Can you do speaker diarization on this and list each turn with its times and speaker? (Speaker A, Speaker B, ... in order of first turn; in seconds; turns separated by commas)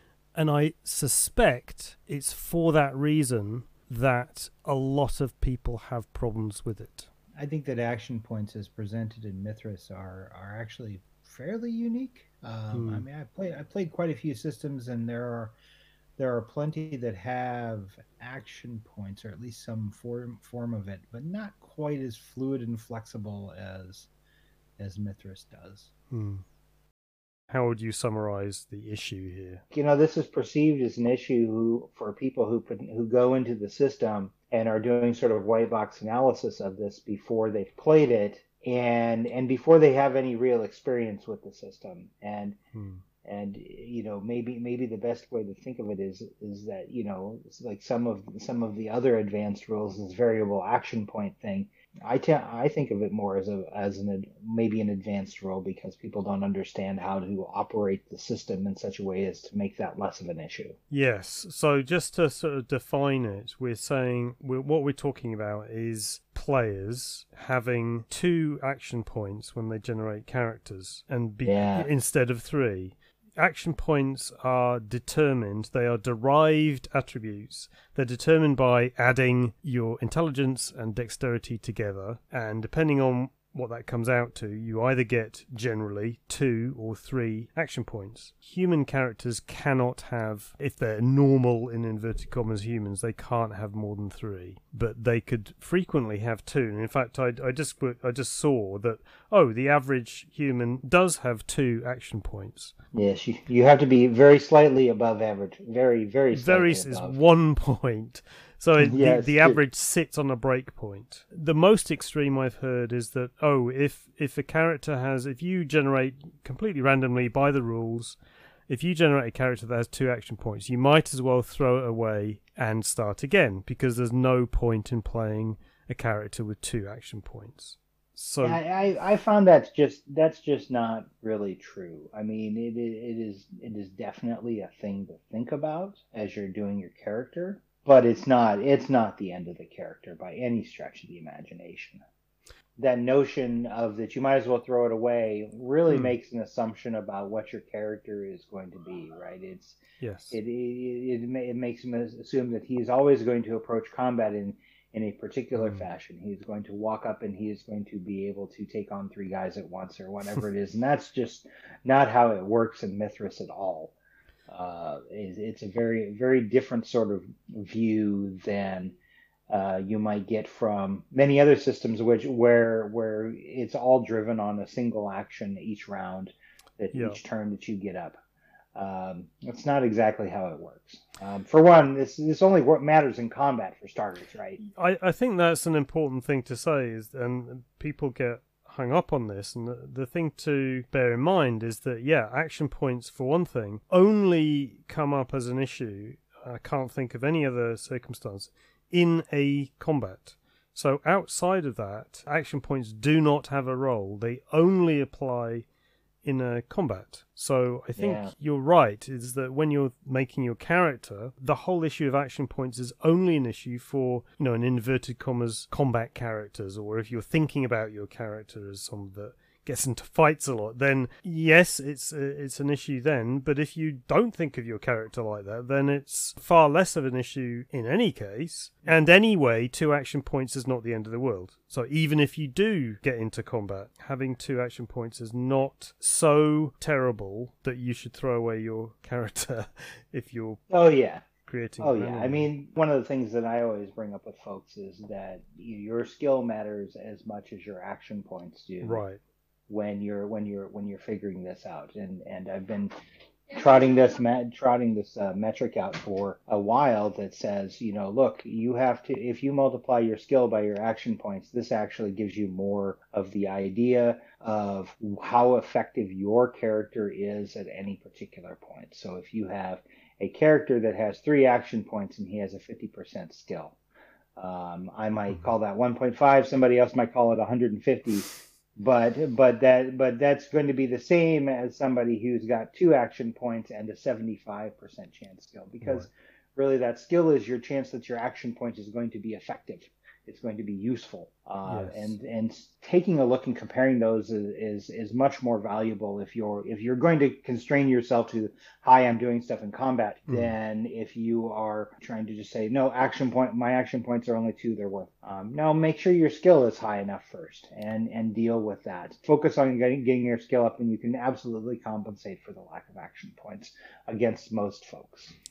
Speaker A: 0.3-7.1, Speaker B: 7.4-15.5, Speaker A: 12.7-13.1, Speaker B: 16.2-24.1, Speaker B: 24.8-25.9, Speaker A: 26.1-26.4, Speaker A: 27.5-29.6, Speaker B: 29.7-42.6, Speaker A: 42.7-43.0, Speaker B: 43.2-60.8, Speaker A: 60.9-102.7, Speaker B: 71.4-71.9, Speaker B: 102.9-107.2, Speaker A: 106.3-128.6, Speaker B: 108.8-109.6, Speaker B: 128.4-142.0, Speaker B: 142.8-149.8, Speaker A: 145.9-146.1, Speaker A: 150.0-150.4, Speaker B: 150.3-163.9, Speaker A: 155.5-155.8, Speaker B: 164.5-168.9, Speaker B: 169.5-178.2, Speaker A: 176.9-177.2, Speaker B: 178.7-184.6, Speaker A: 184.6-205.7, Speaker A: 206.2-240.6, Speaker B: 207.9-208.3, Speaker B: 240.7-241.2, Speaker A: 241.4-242.5, Speaker B: 241.8-249.0, Speaker A: 248.8-249.2, Speaker B: 249.7-252.9, Speaker B: 253.5-273.8, Speaker B: 274.4-315.3, Speaker A: 285.8-286.1, Speaker A: 291.6-292.1, Speaker A: 300.3-300.5